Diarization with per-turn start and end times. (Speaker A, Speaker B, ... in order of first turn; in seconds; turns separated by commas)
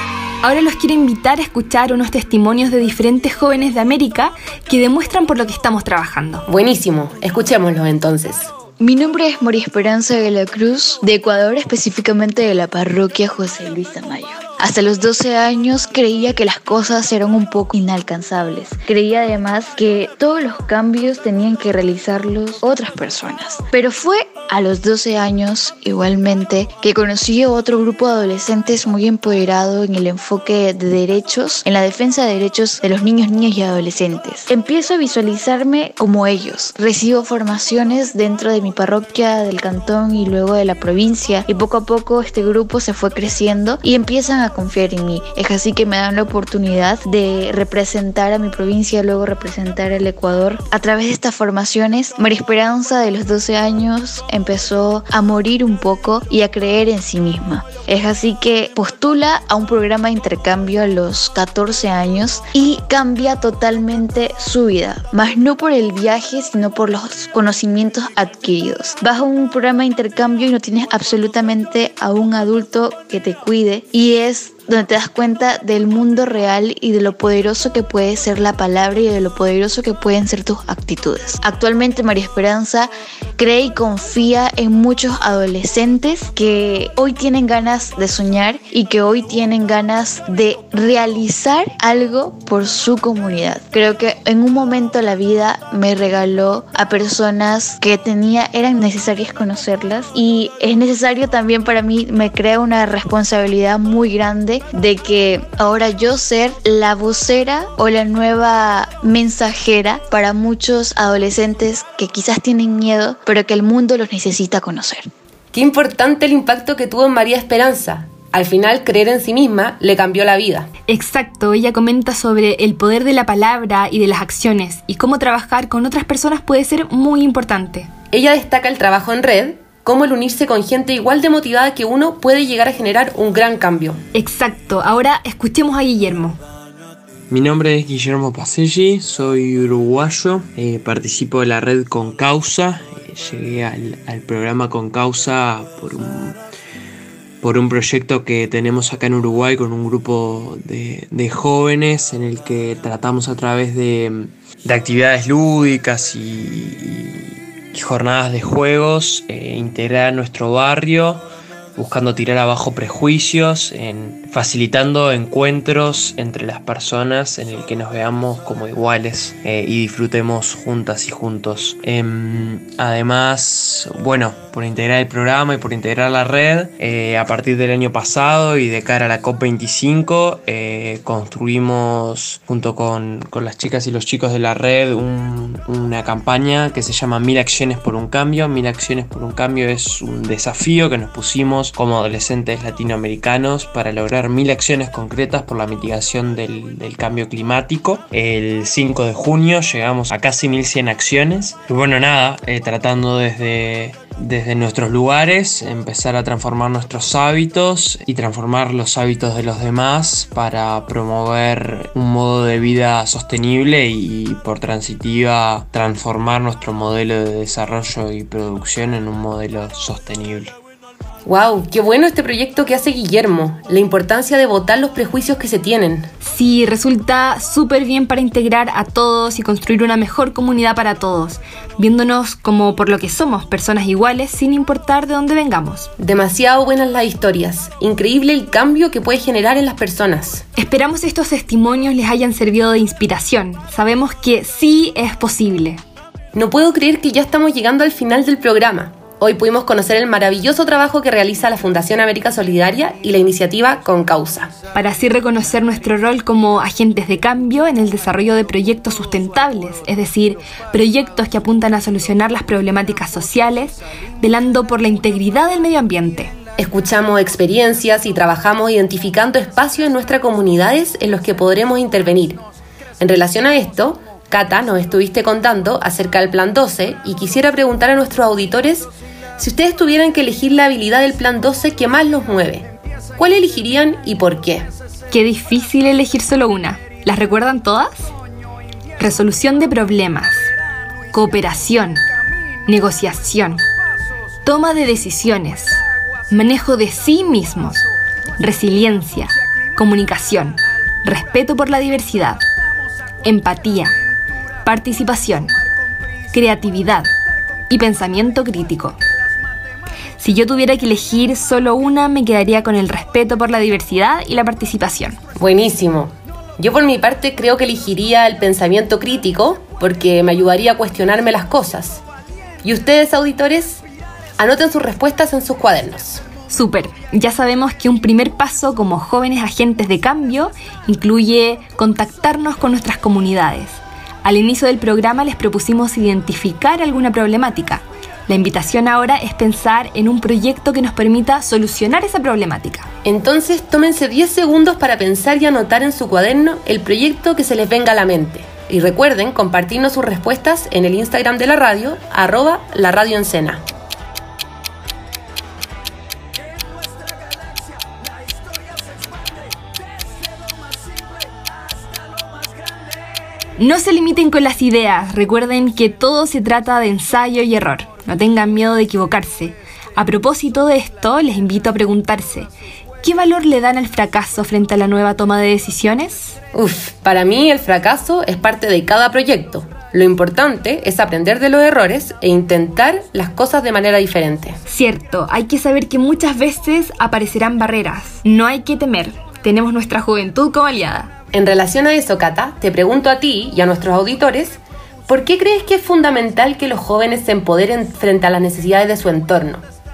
Speaker A: 0.4-6.4, Speaker B: 6.5-8.5, Speaker C: 8.8-115.1, Speaker B: 115.5-120.7, Speaker A: 120.9-127.9, Speaker B: 128.1-134.0, Speaker A: 134.1-136.4, Speaker D: 137.3-146.4, Speaker D: 147.4-161.2, Speaker D: 161.8-220.5, Speaker B: 221.2-226.1, Speaker A: 226.2-235.9, Speaker B: 236.0-240.4, Speaker A: 240.6-245.8, Speaker B: 246.3-254.5, Speaker A: 254.7-266.3, Speaker B: 266.6-272.4, Speaker B: 273.0-284.7, Speaker A: 285.1-288.1, Speaker A: 289.0-290.5, Speaker A: 291.1-292.0, Speaker A: 292.6-293.6, Speaker A: 294.4-297.9, Speaker A: 298.4-302.4, Speaker A: 303.2-303.9, Speaker A: 304.6-305.6, Speaker A: 306.3-307.1, Speaker A: 307.7-309.0, Speaker A: 310.2-315.2, Speaker B: 315.4-322.0, Speaker B: 322.6-323.8, Speaker B: 324.4-326.2, Speaker A: 326.5-342.9, Speaker B: 343.0-353.6, Speaker A: 363.6-372.5, Speaker A: 373.0-376.4, Speaker B: 376.5-384.6, Speaker A: 384.7-391.1, Speaker B: 391.3-399.6